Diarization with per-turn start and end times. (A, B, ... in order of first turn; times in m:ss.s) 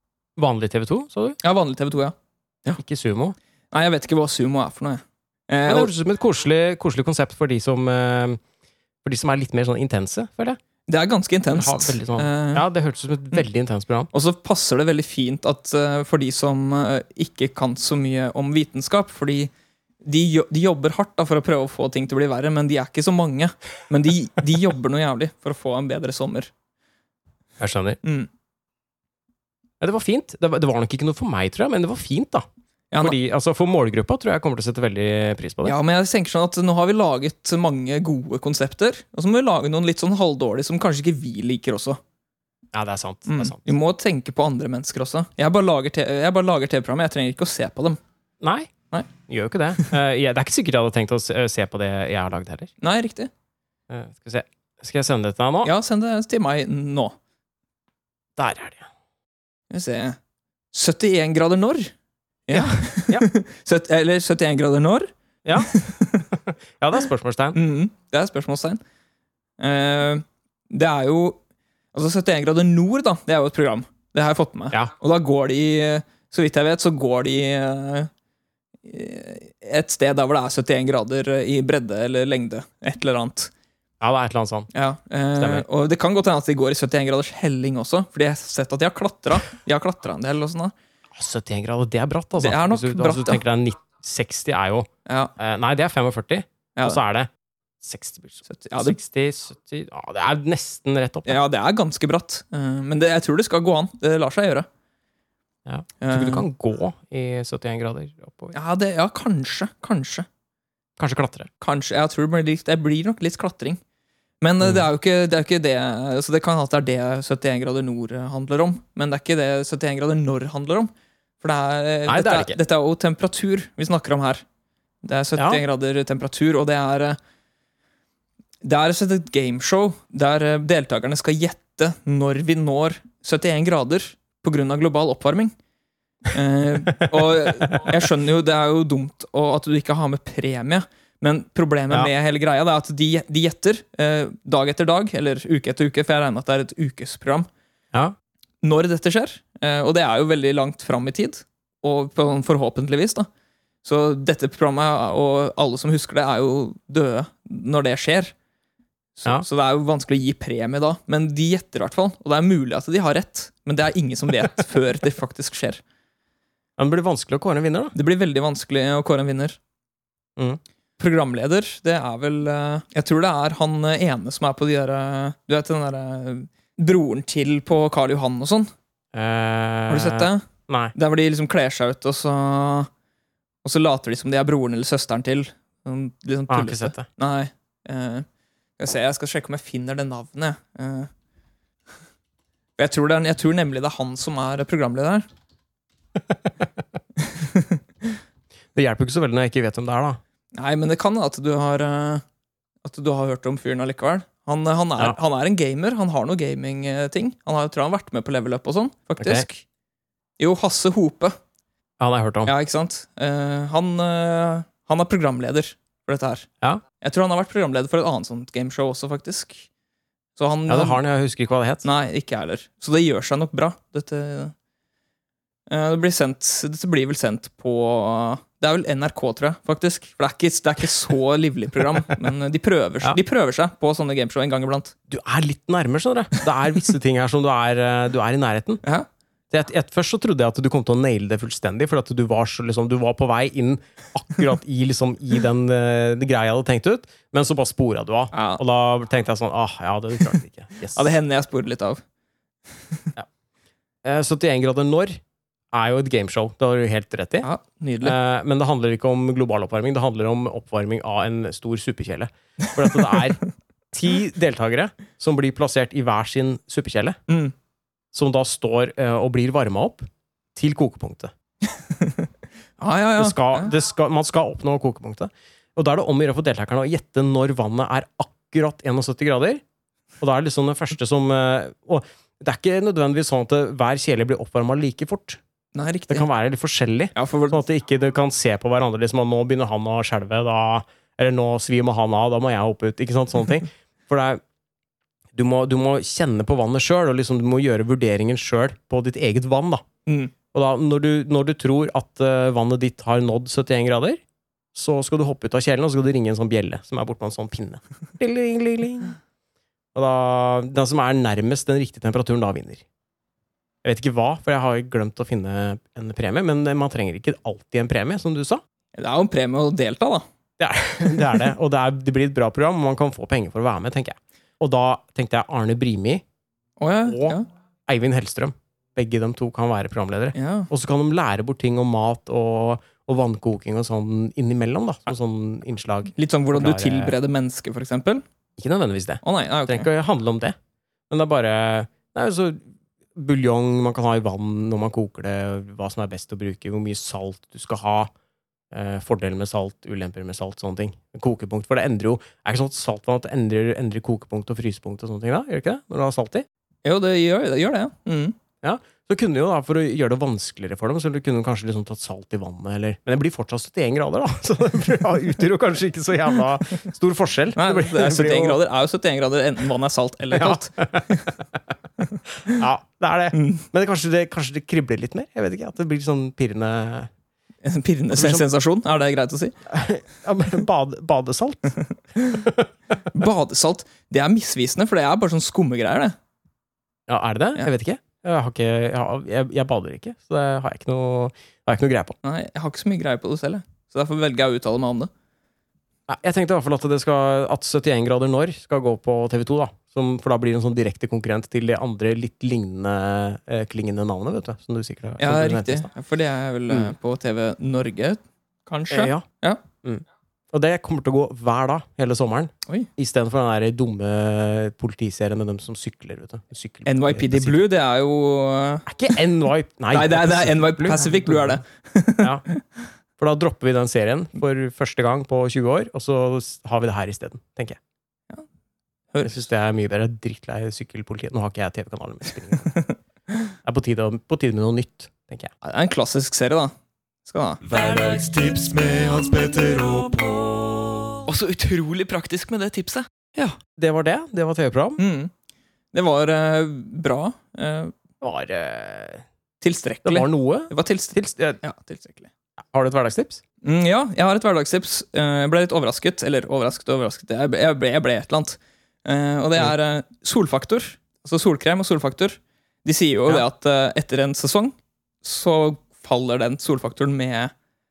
0:00.4-0:01.4 A
0:01.4-0:02.8 B
0:02.8-0:03.4 A
0:03.7-0:05.9 B
0:05.6-0:08.4 A
0:09.0-0:10.6 A
0:10.9-0:12.6 B
0:11.5-0:14.1 A
0:14.1-0:19.5 B
0:20.0-0:26.5 B
0:27.6-0:28.0 A
0:28.0-0:28.3 B
0:29.8-0:32.4 A
0:33.0-0:35.8 A
0:35.6-0:42.0 B
0:42.7-0:43.7 A
0:43.3-0:48.0 B
0:48.4-0:48.7 A
0:49.3-0:52.7 A
0:52.8-0:53.3 B
0:53.9-0:55.7 A
0:55.6-0:57.1 B
0:58.4-0:58.9 A
0:59.7-1:00.2 B
1:00.7-1:01.9 B
1:02.5-1:06.2 B
1:02.5-1:03.3 A
1:05.4-1:05.8 A
1:06.3-1:07.6 A
1:07.5-1:08.8 B
1:09.6-1:11.4 B
1:11.9-1:18.1 B
1:18.8-1:23.5 B
1:24.0-1:24.7 A
1:24.7-1:30.7 B
1:25.4-1:25.6 A
1:31.1-1:37.3 A
1:32.4-1:33.4 B
1:35.0-1:35.3 B
1:37.8-1:41.4 A
1:38.5-1:39.0 B
1:41.2-1:44.7 B
1:45.6-1:48.5 A
1:46.0-1:46.4 B
1:48.5-1:50.3 B
1:51.0-1:51.5 A
1:51.6-1:53.8 B
1:54.4-2:04.4 B
1:54.6-1:54.9 A
2:02.1-2:02.6 A
2:05.0-2:07.2 B
2:05.4-2:05.6 A
2:08.6-2:15.5 B
2:16.3-2:27.5 B
2:28.6-2:33.3 B
2:33.8-2:38.3 B
2:39.2-2:45.8 B
2:46.8-2:47.9 A
2:47.9-2:49.6 B
2:51.0-2:58.7 B
2:59.1-3:00.9 A
2:59.9-3:02.9 B
3:03.6-3:08.2 B
3:06.5-3:07.0 A
3:08.8-3:11.1 B
3:12.8-3:15.2 B
3:17.3-3:17.8 B
3:18.7-3:20.2 A
3:20.5-3:22.2 B
3:22.8-3:29.6 B
3:29.2-3:29.4 A
3:30.4-3:31.4 B
3:32.0-3:32.5 A
3:32.4-3:36.5 B
3:37.0-3:39.7 B
3:40.4-3:41.0 B
3:40.7-3:41.9 A
3:41.8-3:44.5 B
3:45.7-3:54.9 B
3:55.1-3:58.8 A
3:59.5-4:11.1 A
4:08.3-4:08.6 B
4:10.9-4:12.0 B
4:14.0-4:15.2 A
4:15.7-4:17.5 A
4:17.4-4:18.2 B
4:18.0-4:23.4 A
4:23.9-4:27.2 A
4:27.3-4:27.5 B
4:28.1-4:31.3 A
4:31.7-4:33.7 B
4:33.2-4:39.6 A
4:40.2-4:45.4 A
4:45.7-4:46.3 B
4:46.1-4:54.4 A
4:47.1-4:47.6 B
4:55.3-4:59.8 A
5:00.1-5:00.3 B
5:00.5-5:04.2 A
5:04.7-5:09.2 A
5:09.9-5:12.8 A
5:13.8-5:18.6 A
5:18.9-5:20.2 B
5:20.6-5:26.2 A
5:26.8-5:27.5 B
5:27.0-5:37.1 A
5:30.3-5:30.7 B
5:36.2-5:38.2 B
5:38.6-5:40.6 A
5:39.2-5:39.9 B
5:41.1-5:48.1 A
5:48.7-5:56.4 A
5:56.8-5:58.3 B
5:58.6-6:08.6 A
6:07.6-6:11.4 B
6:10.3-6:11.1 A
6:12.5-6:17.1 A
6:13.3-6:13.6 B
6:17.6-6:19.6 B
6:18.1-6:18.5 A
6:19.6-6:22.7 A
6:23.1-6:26.2 B
6:27.1-6:32.2 A
6:32.2-6:35.1 B
6:36.1-6:45.9 A
6:45.2-6:49.6 B
6:48.9-6:49.2 A
6:49.8-6:57.6 A
6:56.8-6:58.9 B
6:58.9-7:01.6 A
6:59.9-7:02.6 B
7:03.2-7:07.8 A
7:09.2-7:12.7 A
7:13.6-7:15.5 A
7:15.6-7:16.7 B
7:17.2-7:17.6 B
7:17.6-7:21.2 C
7:21.2-7:23.1 B
7:23.4-7:25.0 A
7:25.0-7:25.3 B
7:25.9-7:27.9 B
7:28.2-7:29.2 A
7:29.6-7:32.3 B
7:30.0-7:31.6 A
7:32.7-7:33.4 A
7:33.6-7:47.5 B